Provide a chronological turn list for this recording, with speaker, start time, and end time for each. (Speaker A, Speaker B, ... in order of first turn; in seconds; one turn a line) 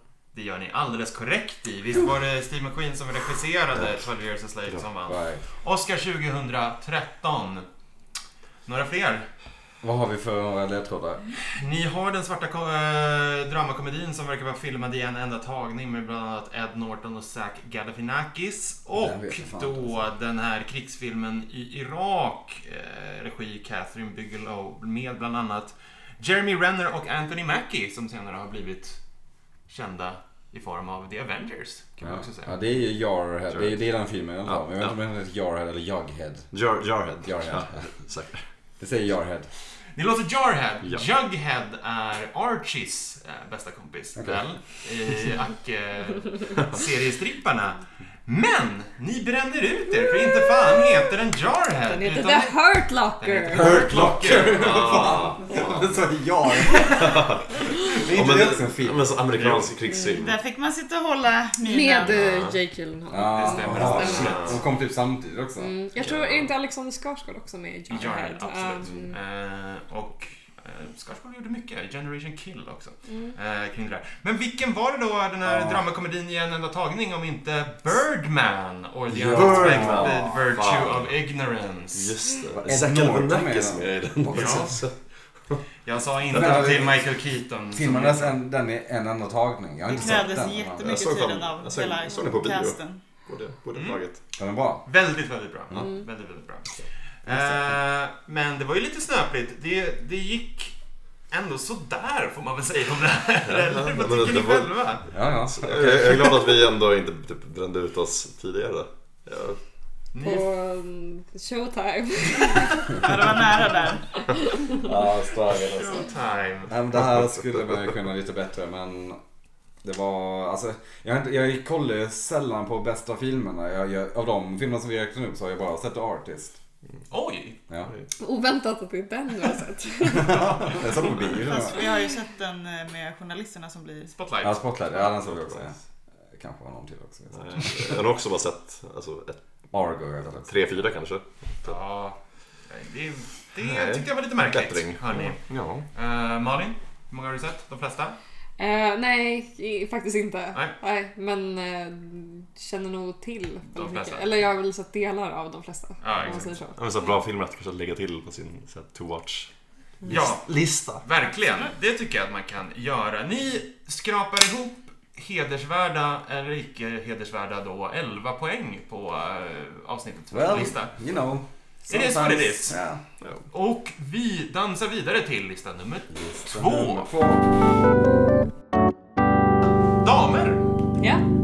Speaker A: 0.3-7.6
Speaker B: 5.1-5.4
Speaker A: 8.7-9.3
Speaker B: 9.8-11.2
Speaker A: 11.4-29.0
Speaker B: 18.9-20.0
Speaker A: 29.7-32.5
Speaker B: 32.0-36.5
Speaker C: 33.5-33.7
Speaker C: 34.5-35.0
Speaker C: 36.5-38.4
Speaker B: 37.2-37.9
Speaker B: 38.8-39.5
Speaker A: 39.9-52.6
Speaker C: 46.5-46.8
Speaker D: 50.1-51.1
Speaker D: 51.8-53.7
Speaker A: 53.2-55.2
Speaker B: 53.5-59.1
Speaker C: 53.6-55.9
Speaker C: 56.8-60.4
Speaker A: 59.3-59.7
Speaker D: 59.9-60.2
Speaker E: 60.1-62.2
Speaker D: 61.6-64.5
Speaker C: 62.0-62.6
Speaker B: 63.1-65.7
Speaker A: 63.2-64.6
Speaker C: 63.7-64.6
Speaker D: 65.6-69.2
Speaker C: 66.0-66.5
Speaker A: 67.9-82.2
Speaker D: 73.1-73.3
Speaker B: 75.4-75.8
Speaker B: 79.1-80.3
Speaker C: 79.2-81.1
Speaker C: 81.9-85.0
Speaker B: 82.5-84.8
Speaker A: 84.3-84.7
Speaker A: 85.8-88.4
Speaker B: 86.3-87.0
Speaker B: 87.7-91.0
Speaker E: 89.9-93.1
Speaker C: 90.8-94.2
Speaker A: 93.7-94.0
Speaker B: 94.4-94.8
Speaker A: 94.8-100.7
Speaker B: 97.3-97.6
Speaker A: 101.3-105.0
Speaker C: 103.5-104.8
Speaker B: 105.1-106.6
Speaker C: 105.4-109.6
Speaker A: 110.1-110.5
Speaker D: 110.2-113.1
Speaker E: 112.9-114.2
Speaker D: 114.3-114.8
Speaker B: 114.8-116.1
Speaker A: 115.8-116.7
Speaker B: 116.7-119.2
Speaker C: 116.9-117.8
Speaker B: 119.8-126.6
Speaker A: 127.1-127.6
Speaker C: 127.8-128.1
Speaker D: 128.2-132.0
Speaker B: 130.1-131.8
Speaker A: 130.6-130.8
Speaker E: 131.3-134.1
Speaker A: 134.1-134.6
Speaker B: 134.4-135.7
Speaker C: 135.3-135.7
Speaker B: 136.3-138.0
Speaker C: 137.3-139.4
Speaker B: 139.7-140.5
Speaker C: 140.4-141.8
Speaker A: 141.6-148.2
Speaker C: 143.6-145.8
Speaker D: 148.6-156.8
Speaker A: 153.7-154.3
Speaker A: 156.0-156.6
Speaker C: 156.7-159.5
Speaker C: 160.1-160.7
Speaker B: 160.1-160.8
Speaker A: 160.1-170.9
Speaker B: 170.3-173.0
Speaker A: 171.9-172.8
Speaker A: 173.5-177.1
Speaker B: 176.1-177.4
Speaker A: 180.0-180.6